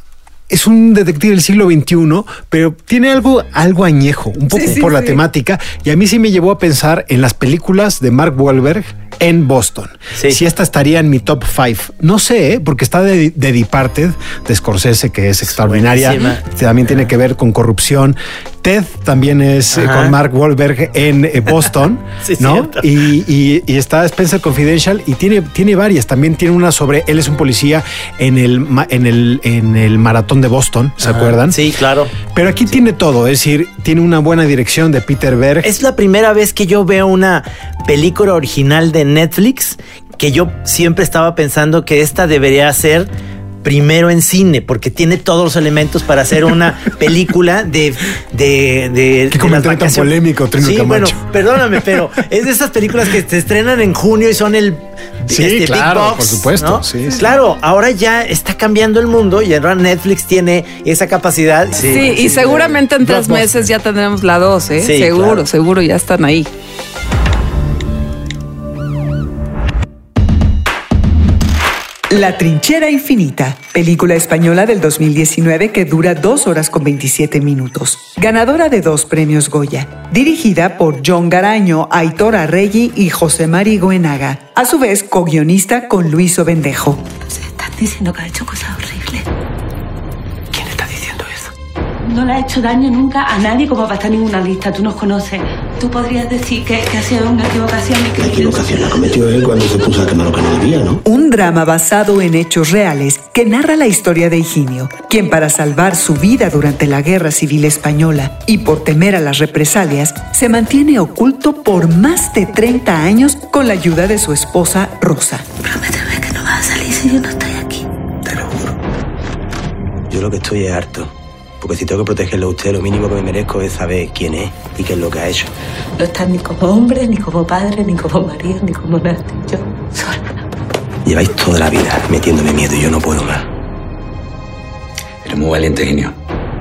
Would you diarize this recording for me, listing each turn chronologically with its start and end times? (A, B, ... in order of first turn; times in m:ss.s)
0:00.5-0:31.6 A
0:04.5-0:05.2 B
0:15.4-0:17.0 C
0:19.7-0:20.1 C
0:22.2-0:22.9 C
0:31.0-0:32.8 C
0:32.3-0:35.7 A
0:35.6-0:43.1 C
0:43.6-1:02.8 C
0:49.3-0:51.2 A
0:55.2-0:57.2 A
1:01.8-1:06.5 B
1:01.9-1:03.7 A
1:04.8-1:05.4 C
1:12.1-1:27.0 D
1:27.3-1:29.2 E
1:30.5-1:31.1 F
1:30.8-1:31.3 E
1:32.1-1:39.0 E
1:38.2-1:41.0 F
1:41.0-1:55.4 D
1:55.6-1:57.8 E
1:58.2-1:58.7 F
2:00.1-2:05.5 F
2:06.0-2:10.3 E
2:11.0-2:13.4 F
2:15.2-2:16.1 F